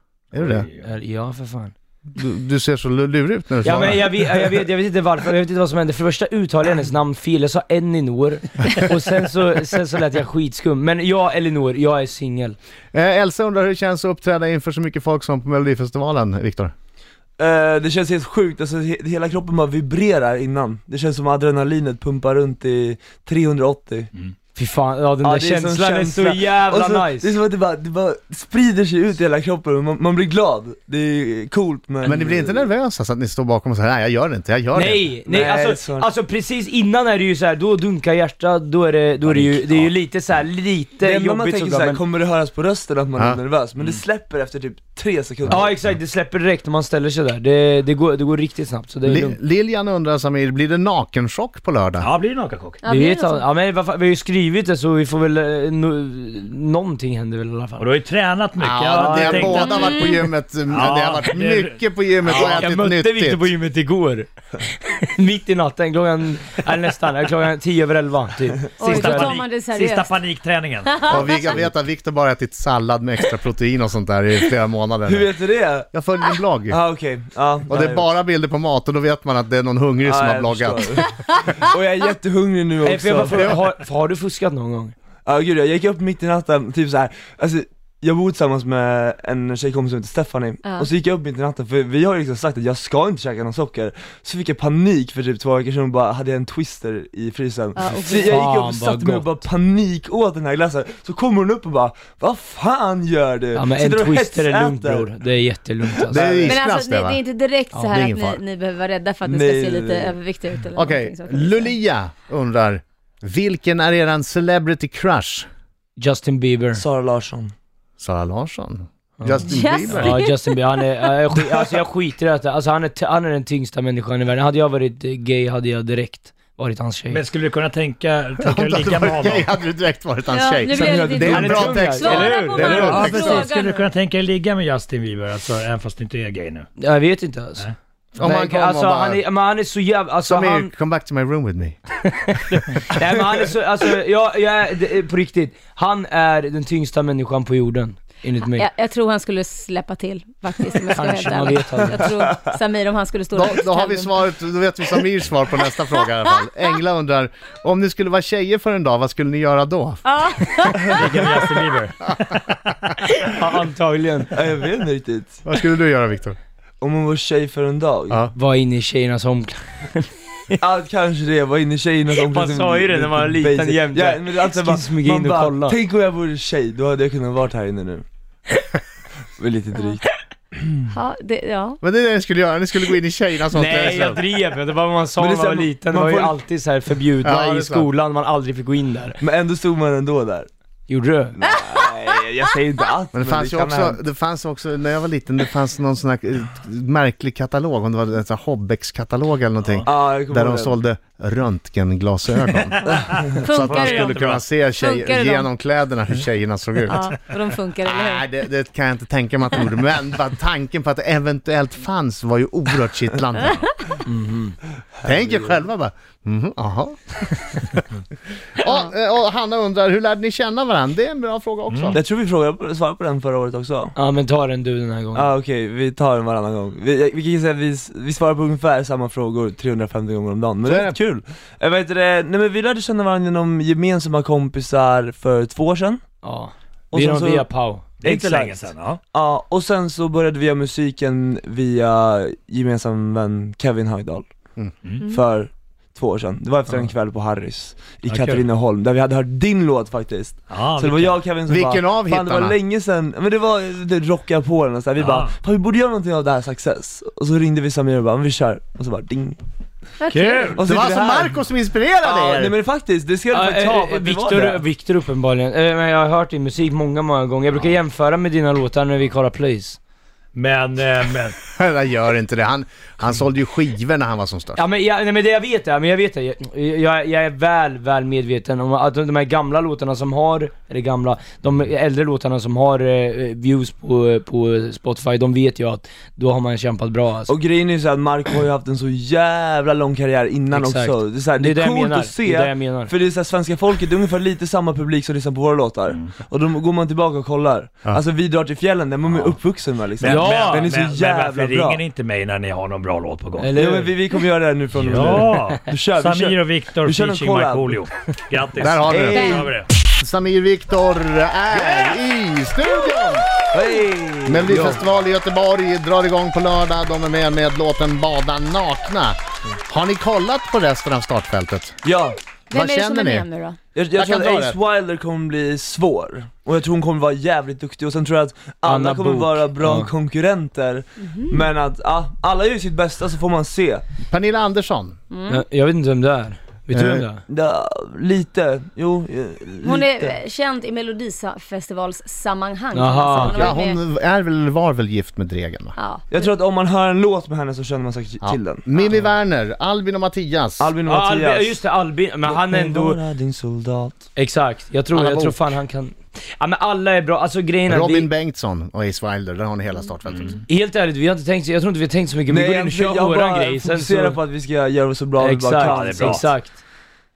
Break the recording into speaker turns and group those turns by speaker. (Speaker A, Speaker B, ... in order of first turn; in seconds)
Speaker A: 0.3-0.7, 2.1-4.2, 12.9-16.7, 32.0-35.1, 49.0-52.1, 58.6-63.5, 71.1-76.8, 77.7-81.1, 106.1-107.2, 107.8-108.4, 110.7-115.5, 118.0-120.2, 128.4-133.5, 138.2-139.2, 140.2-141.8, 153.3-160.0, 165.4-166.4, 181.8-184.2, 187.2-187.9, 193.1-207.1, 207.9-213.7, 215.0-217.9, 218.6-222.0, 230.7-231.0, 251.4-252.6, 260.6-262.6, 271.4-274.6, 308.6-313.3, 314.3-321.8, 322.5-323.3, 323.9-324.6, 334.1-335.0, 336.7-337.1, 343.3-345.8, 348.2-350.7, 354.9-355.5, 357.7-360.4
Speaker B: 0.3-0.8, 39.3-39.7, 52.0-52.8, 57.8-61.7, 68.8-71.3, 127.1-129.5, 132.7-136.7, 160.7-162.1, 202.8-204.4, 221.7-222.0, 238.0-239.0, 248.1-248.4, 250.5-251.2, 255.0-255.3, 260.1-260.6, 270.3-271.4, 299.1-299.4, 300.0-303.6, 304.8-309.7, 360.1-360.4, 365.6-366.3
Speaker C: 0.8-1.7, 3.6-12.6, 24.6-27.3, 34.7-42.0, 45.5-49.4, 52.9-57.9, 62.2-64.3, 64.8-69.4, 82.8-84.9, 98.1-99.3, 103.5-106.6, 116.0-116.8, 119.2-127.2, 131.2-133.2, 136.8-137.7, 138.2-140.7, 142.1-148.7, 150.9-152.2, 163.2-164.3, 168.3-170.6, 172.2-175.8, 183.5-189.2, 190.9-191.4, 214.1-214.6, 223.9-225.3, 236.2-237.8, 263.3-269.8, 274.6-287.3, 290.5-292.9, 300.0-300.7, 303.4-303.9, 304.9-305.4, 314.5-314.8, 328.6-329.9, 335.3-337.2, 342.7-343.6, 350.9-353.0, 354.2-358.1, 360.5-364.2, 365.2-366.6
Speaker D: 17.4-24.1, 25.2-32.7, 35.2-36.1, 41.0-45.8, 75.1-75.9, 76.7-78.2, 80.0-83.6, 85.2-105.1, 109.2-110.2, 116.8-117.5, 130.7-131.8, 151.8-152.6, 164.3-165.4, 166.8-168.2, 170.6-178.1, 179.4-180.8, 185.2-186.4, 189.2-190.5, 191.4-194.0, 199.9-200.8, 221.9-223.9, 225.2-236.0, 236.9-244.3, 245.1-259.4, 260.6-261.4, 262.0-264.6, 287.3-301.8, 303.6-307.8, 308.9-309.4, 313.5-314.8, 321.8-322.2, 323.8-333.8, 337.3-340.2, 346.1-348.7, 350.6-351.6, 352.3-354.1, 362.3-366.3
Speaker E: 52.8-53.4, 59.5-60.2, 68.8-70.3, 70.8-71.7, 90.6-90.9, 97.8-98.3, 106.4-111.8, 119.4-120.6, 130.3-133.9, 148.6-154.2, 160.1-161.0, 180.9-181.8, 203.4-204.1, 204.7-205.5, 206.9-208.2, 260.0-260.6, 309.1-309.5, 322.5-323.6, 331.0-331.4, 335.1-335.4, 339.6-343.8, 345.8-346.1